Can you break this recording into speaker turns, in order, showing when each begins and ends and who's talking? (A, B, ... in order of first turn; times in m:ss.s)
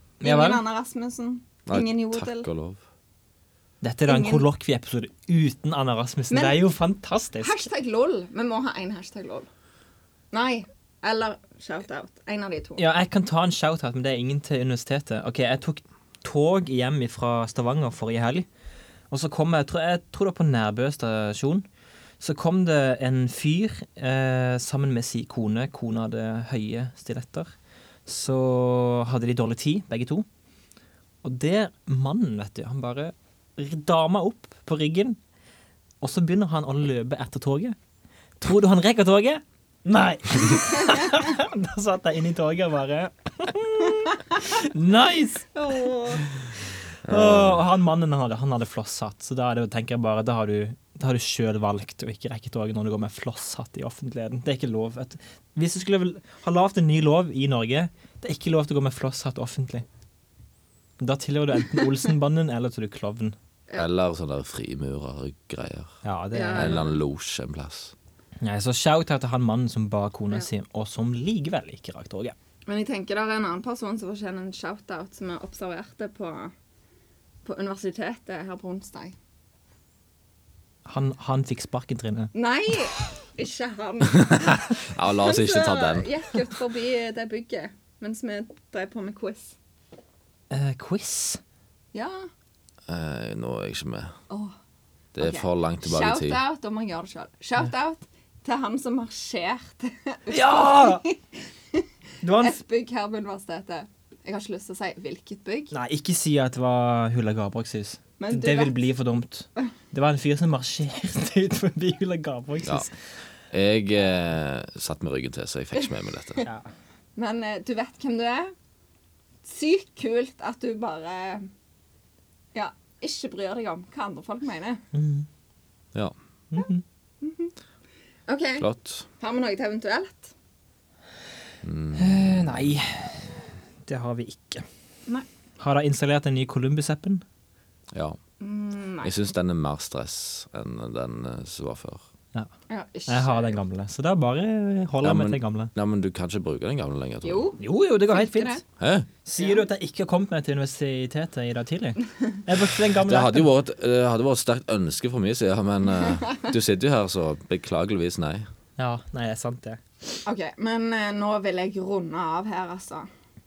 0:00.2-0:02.5 A
0:00.2-0:00.6 B
0:01.7-0:02.8 C
0:03.8-0:07.6 B
0:04.1-0:04.4 A
0:06.3-0:06.6 A
0:07.4-0:09.5 A
0:10.3-0:12.8 A
0:12.8-0:18.4 B
0:19.1-0:21.6 B
0:22.2-0:27.5 B
0:28.0-0:30.3 B
0:31.2-0:35.2 B
0:36.0-0:37.8 B
0:38.4-0:59.8 B
0:45.6-0:46.2 A
0:47.0-0:47.6 C
1:01.0-1:03.4 B
1:03.8-1:06.0 C
1:06.0-1:06.8 B
1:06.3-1:06.9 A
1:06.6-1:07.9 C
1:08.4-1:12.3 B
1:12.7-1:16.5 A
1:17.4-1:19.2 A
1:20.9-1:22.3 B
1:22.3-1:29.6 A
1:24.1-1:26.1 C
1:30.5-1:31.4 B
1:31.9-1:32.3 A
1:32.9-1:34.1 C
1:34.3-1:34.6 A
1:35.1-1:36.4 C
1:35.2-1:45.7 A
1:40.3-1:41.0 B
1:42.2-1:42.6 B
1:45.7-1:52.9 B
1:48.2-1:48.8 A
1:53.5-1:56.4 C
1:57.2-1:58.5 A
1:59.4-2:01.5 A
2:02.5-2:04.8 A
2:04.9-2:05.3 B
2:06.5-2:06.8 B
2:07.2-2:07.5 A
2:08.3-2:08.7 A
2:08.6-2:09.1 C
2:09.2-2:10.3 A
2:11.6-2:12.7 C
2:12.0-2:14.6 B
2:15.6-2:17.2 B
2:17.9-2:18.2 C
2:18.4-2:19.3 A
2:19.0-2:22.0 C
2:22.7-2:23.6 A
2:23.1-2:25.7 B
2:25.0-2:27.4 C
2:27.2-2:28.6 A
2:27.6-2:28.6 B
2:28.8-2:29.1 C
2:29.2-2:33.5 B
2:29.4-2:29.6 A
2:33.0-2:38.5 C
2:38.8-2:39.8 B
2:40.2-2:43.1 A